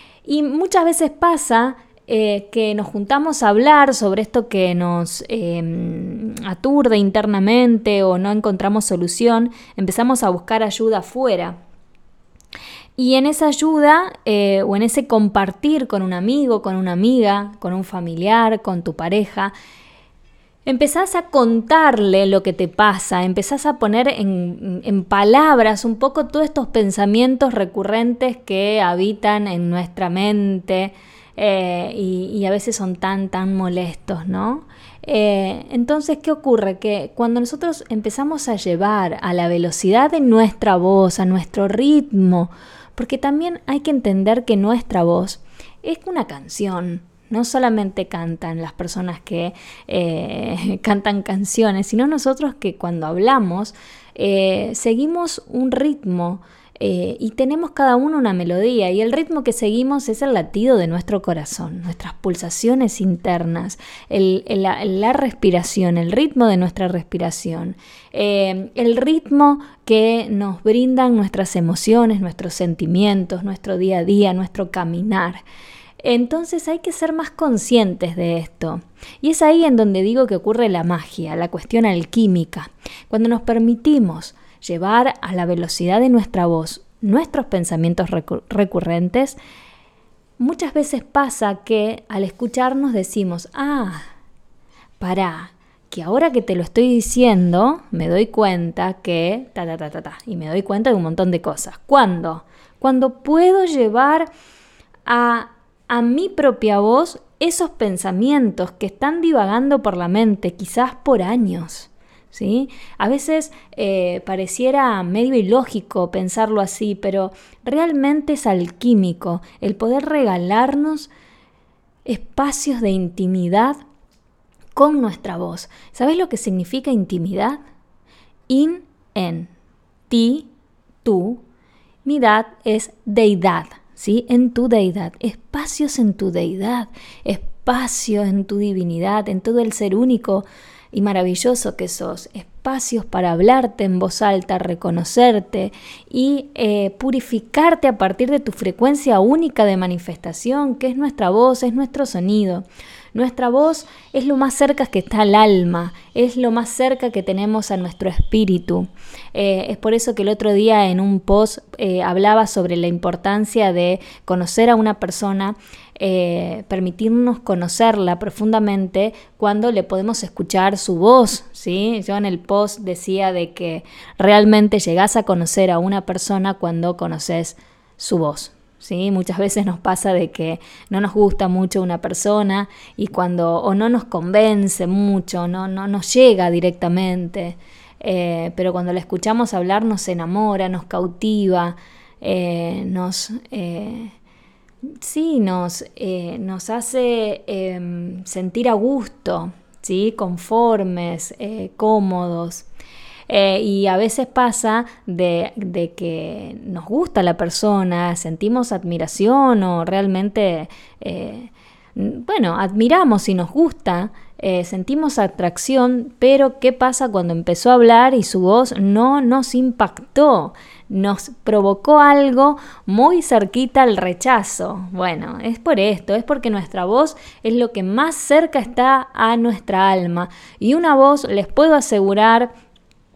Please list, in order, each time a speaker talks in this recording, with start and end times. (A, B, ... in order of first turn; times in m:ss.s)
0:00.2-0:11.6 A
0:13.0-0:19.5 A
0:20.6-1:15.4 A
1:16.0-1:29.4 A
1:30.4-1:34.1 A
1:35.0-1:44.3 A
1:45.0-2:01.1 A
2:02.0-2:03.8 A
2:04.7-2:07.6 A
2:08.5-2:09.5 A
2:10.1-2:10.5 A
2:11.0-2:11.4 A
2:12.0-3:14.1 A
3:15.0-3:22.6 A
3:23.3-3:52.5 A